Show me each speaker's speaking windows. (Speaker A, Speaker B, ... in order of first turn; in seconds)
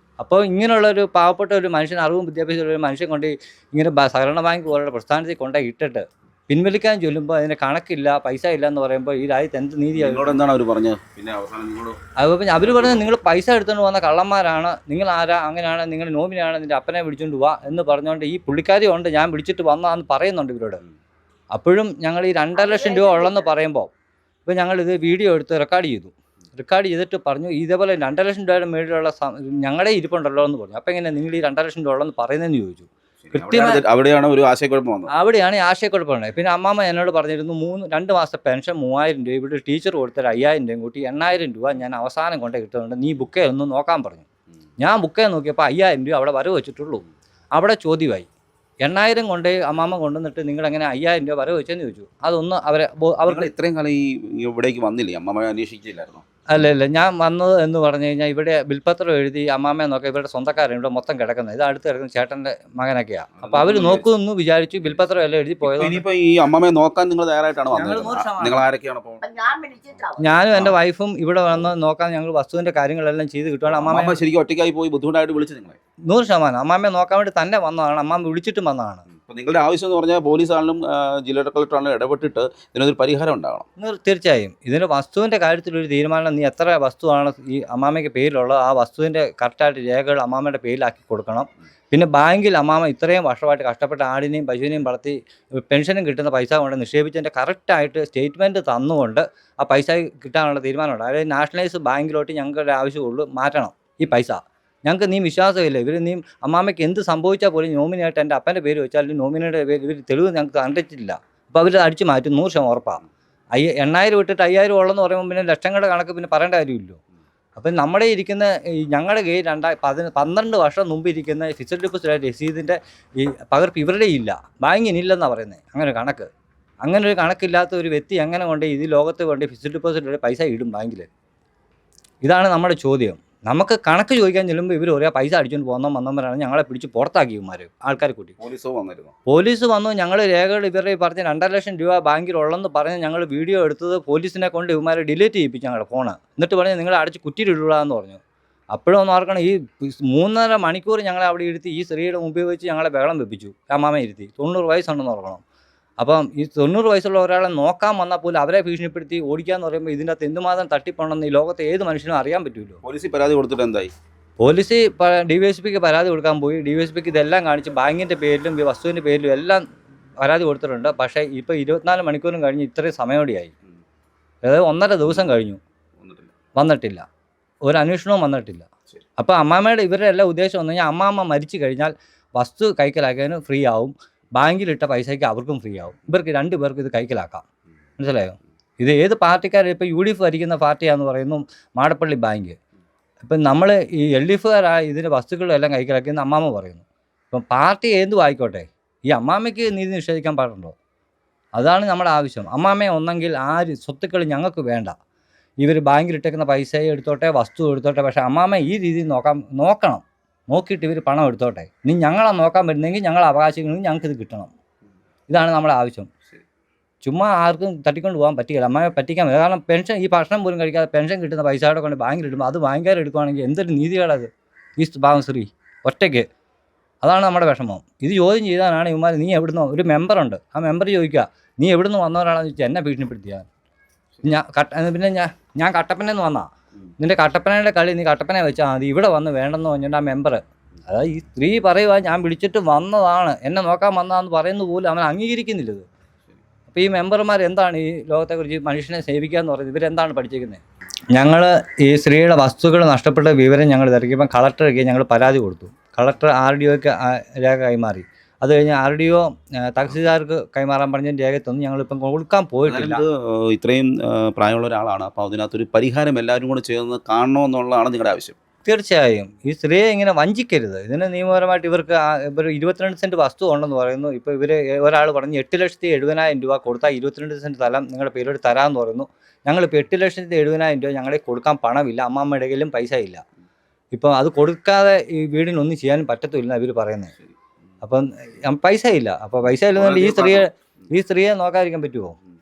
Speaker A: 0.2-10.4, 12.2-20.8, 21.5-23.9, 24.5-33.8, 35.1-44.3, 44.8-48.3, 48.8-53.5, 56.5-66.0, 67.7-68.7, 70.2-74.2, 76.1-79.0, 83.8-113.0, 113.5-117.0, 117.6-126.3, 126.8-131.1, 132.2-138.4, 139.3-148.2, 148.7-155.4, 156.0-162.8, 164.4-169.6, 170.2-173.5, 174.4-175.6, 176.6-177.1, 177.7-187.4, 188.0-192.6, 193.2-200.8, 201.6-204.9, 205.6-214.5, 215.3-216.1, 217.0-226.3, 227.0-233.5, 234.2-245.9, 246.7-250.6, 251.1-263.0, 268.6-283.2, 283.9-287.1, 287.8-292.2
Speaker B: 9.9-12.0, 12.6-13.1, 33.3-35.1, 53.3-56.2, 63.4-64.0, 65.6-69.2, 73.7-75.8, 79.2-83.7, 138.4-139.1, 162.8-163.9, 176.0-176.3, 262.7-268.4, 289.8-290.5
Speaker C: 22.6-23.4, 69.2-70.2